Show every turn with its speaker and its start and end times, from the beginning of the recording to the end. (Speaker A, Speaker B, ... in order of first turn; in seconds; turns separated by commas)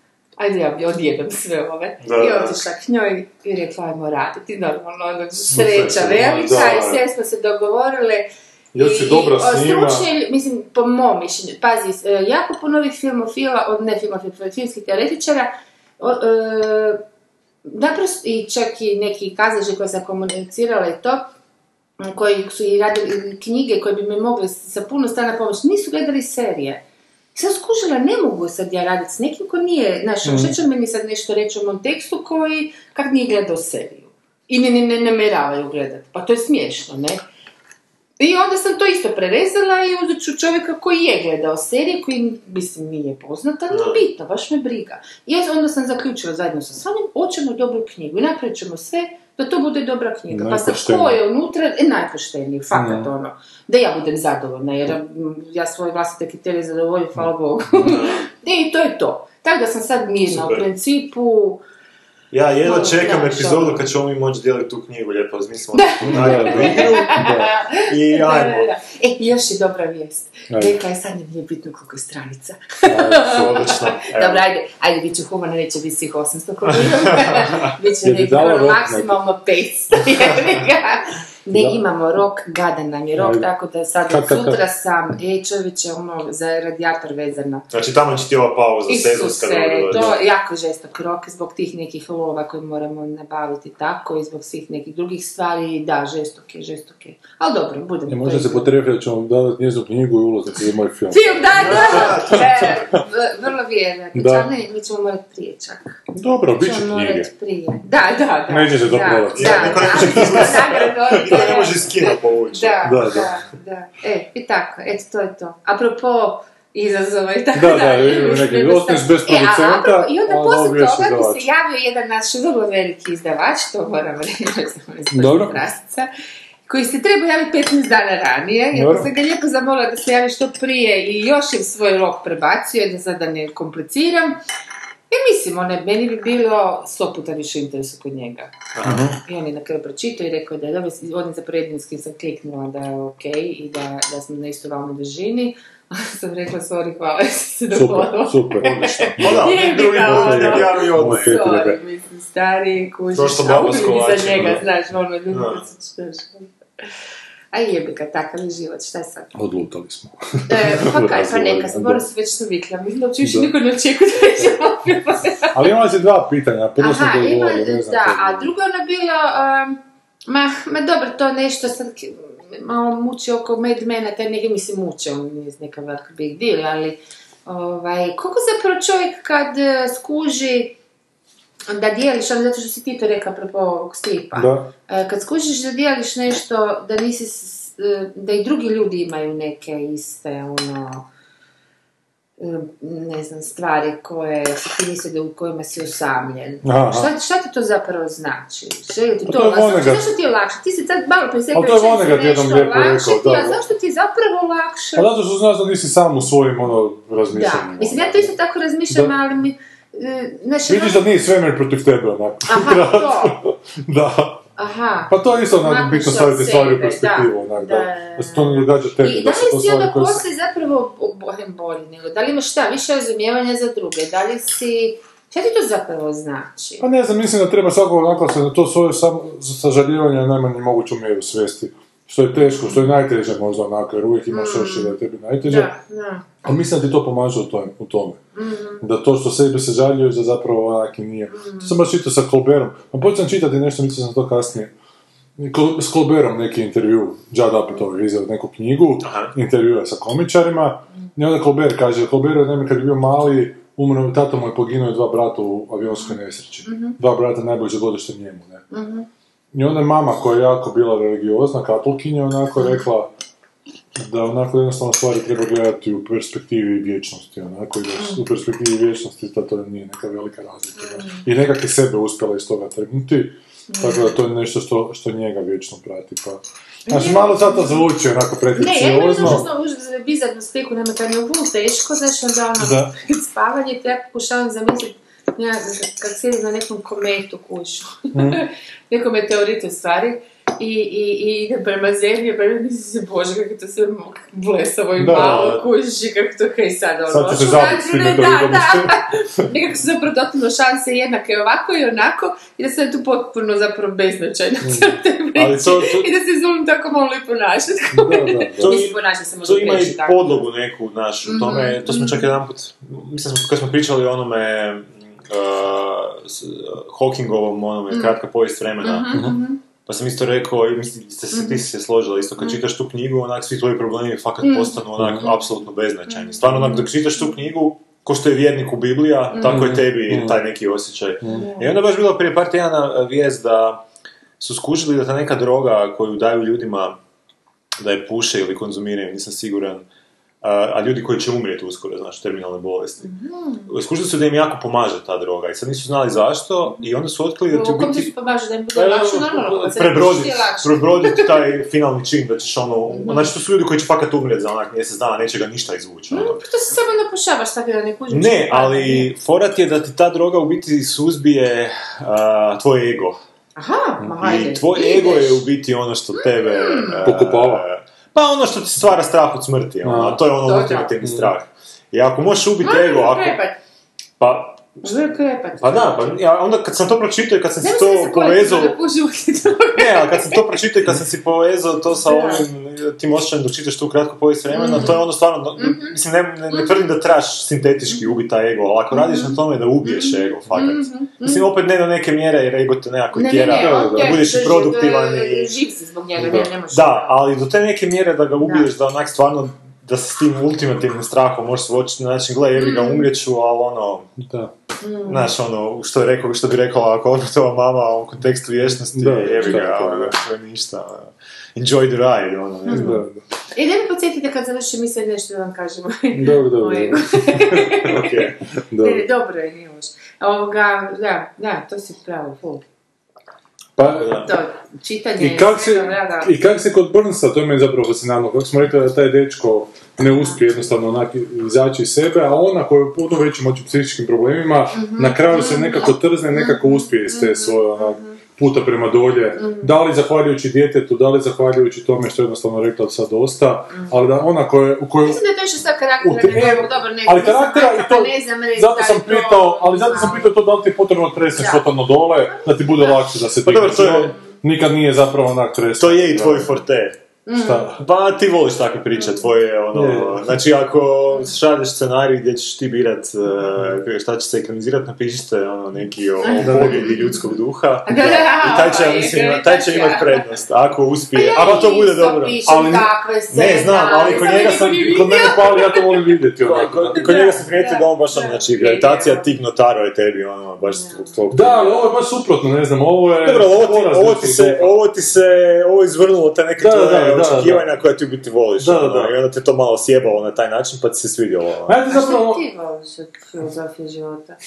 Speaker A: 0.4-17.0, Speaker B: 2.0-2.6, Speaker C: 5.3-7.0, Speaker C: 8.7-10.1, Speaker A: 17.6-21.3, Speaker A: 22.0-26.8, Speaker A: 27.3-37.2, Speaker C: 30.2-30.6, Speaker A: 38.2-61.6, Speaker B: 43.7-44.0, Speaker C: 50.3-51.2, Speaker C: 52.7-53.1, Speaker B: 57.8-58.2, Speaker B: 60.3-60.6, Speaker B: 62.3-67.1, Speaker A: 62.6-63.8, Speaker A: 65.7-87.7, Speaker C: 66.0-67.5, Speaker B: 67.8-68.7, Speaker C: 70.5-70.8, Speaker C: 72.8-74.0, Speaker B: 73.2-74.4, Speaker B: 77.2-77.5, Speaker C: 78.0-79.2, Speaker C: 81.5-81.8, Speaker C: 83.2-83.5, Speaker C: 84.1-84.6, Speaker B: 87.7-90.1, Speaker A: 88.9-98.7, Speaker C: 89.9-90.2, Speaker C: 98.1-102.5, Speaker A: 101.1-106.0, Speaker B: 101.5-102.9, Speaker C: 104.1-104.5, Speaker C: 106.1-107.3, Speaker A: 106.6-126.1, Speaker C: 108.5-111.6, Speaker B: 109.3-113.3, Speaker C: 112.8-113.3, Speaker C: 117.5-121.5, Speaker C: 125.1-125.6, Speaker A: 126.7-134.4, Speaker C: 128.7-129.1, Speaker A: 135.1-138.5, Speaker B: 138.7-139.1, Speaker C: 138.8-139.2, Speaker A: 139.2-156.5, Speaker C: 147.7-151.8, Speaker B: 149.2-151.4, Speaker B: 153.1-154.6, Speaker B: 155.3-155.6, Speaker A: 157.5-159.3, Speaker C: 159.3-162.1, Speaker A: 160.5-165.6, Speaker C: 163.2-163.5, Speaker C: 165.5-168.5, Speaker A: 166.8-180.8, Speaker A: 181.7-191.1, Speaker C: 184.3-184.7, Speaker A: 192.4-205.1, Speaker C: 196.6-197.1, Speaker C: 199.2-200.1, Speaker C: 201.5-203.6, Speaker C: 204.9-208.3, Speaker A: 207.3-211.1, Speaker C: 210.7-214.4, Speaker A: 212.5-213.4, Speaker A: 214.6-226.8, Speaker C: 215.1-220.2, Speaker C: 226.8-235.7, Speaker A: 232.4-232.9, Speaker A: 234.3-236.2, Speaker C: 236.4-238.2, Speaker A: 238.3-238.8, Speaker C: 238.8-244.7, Speaker A: 241.3-241.8, Speaker C: 245.4-258.6, Speaker B: 249.0-249.3, Speaker A: 256.0-257.0, Speaker A: 258.7-259.1, Speaker C: 259.5-263.1, Speaker C: 263.9-279.5, Speaker A: 267.9-268.2, Speaker A: 270.8-271.2, Speaker A: 273.7-274.2, Speaker A: 276.9-277.9, Speaker A: 278.5-310.4, Speaker C: 282.6-282.9, Speaker C: 288.1-288.4, Speaker C: 295.0-295.6, Speaker B: 295.1-295.6, Speaker C: 297.1-299.4, Speaker C: 304.6-305.0, Speaker B: 305.3-306.1, Speaker C: 307.9-308.8, Speaker B: 308.6-319.2, Speaker A: 311.2-312.3, Speaker A: 317.9-318.2, Speaker A: 318.8-319.6, Speaker C: 319.1-319.4, Speaker B: 319.9-333.8, Speaker A: 321.3-321.6, Speaker A: 324.4-325.4, Speaker C: 325.0-325.2, Speaker A: 326.1-327.2, Speaker A: 329.3-329.8, Speaker C: 329.4-330.4, Speaker A: 331.3-331.7, Speaker B: 334.4-337.0, Speaker B: 337.8-339.9, Speaker B: 340.4-343.1, Speaker A: 343.0-343.7, Speaker B: 343.7-348.1, Speaker A: 347.5-351.5, Speaker B: 348.8-356.4, Speaker A: 352.9-353.3, Speaker A: 356.1-359.1, Speaker B: 358.1-363.2, Speaker A: 363.6-365.4, Speaker B: 364.2-373.4, Speaker A: 366.1-367.1, Speaker C: 367.0-367.6, Speaker C: 369.8-370.2, Speaker A: 370.4-370.9, Speaker C: 371.0-371.3, Speaker A: 372.6-373.6, Speaker B: 374.2-375.0, Speaker A: 374.8-376.1, Speaker B: 375.6-378.8, Speaker A: 377.6-380.6, Speaker B: 379.7-395.5, Speaker A: 381.9-382.4, Speaker A: 384.5-386.0, Speaker A: 386.5-386.9, Speaker A: 388.9-391.5, Speaker A: 393.1-397.2, Speaker C: 393.5-394.2, Speaker C: 396.2-396.5, Speaker B: 396.7-404.1, Speaker A: 398.4-398.7, Speaker A: 402.6-403.1, Speaker C: 404.2-404.5, Speaker A: 404.8-405.3, Speaker B: 405.1-413.0, Speaker C: 408.9-410.1, Speaker A: 412.7-413.0, Speaker C: 412.7-413.2, Speaker A: 413.5-418.2, Speaker C: 416.1-418.1, Speaker B: 417.8-418.4, Speaker C: 418.7-419.1, Speaker A: 418.8-422.6, Speaker C: 423.8-424.3, Speaker B: 423.8-424.3, Speaker A: 424.2-426.3, Speaker C: 425.2-445.2, Speaker A: 434.7-438.2, Speaker A: 439.4-439.8, Speaker A: 445.0-450.3, Speaker C: 446.0-456.5, Speaker A: 451.3-453.0, Speaker B: 453.4-454.2, Speaker B: 455.8-457.0, Speaker A: 457.2-457.8, Speaker C: 457.3-457.8, Speaker B: 457.8-472.5, Speaker A: 459.0-459.2, Speaker C: 459.7-460.4, Speaker A: 466.2-467.2, Speaker C: 466.4-466.9, Speaker A: 467.9-470.2, Speaker A: 471.1-475.9, Speaker C: 472.4-472.9, Speaker B: 473.3-475.1, Speaker C: 474.1-477.3, Speaker B: 476.4-481.9, Speaker A: 476.9-479.3, Speaker A: 480.7-481.1, Speaker C: 481.3-484.8, Speaker B: 483.2-491.8, Speaker C: 486.6-487.7, Speaker C: 488.6-489.1, Speaker C: 491.7-492.4, Speaker A: 491.9-494.4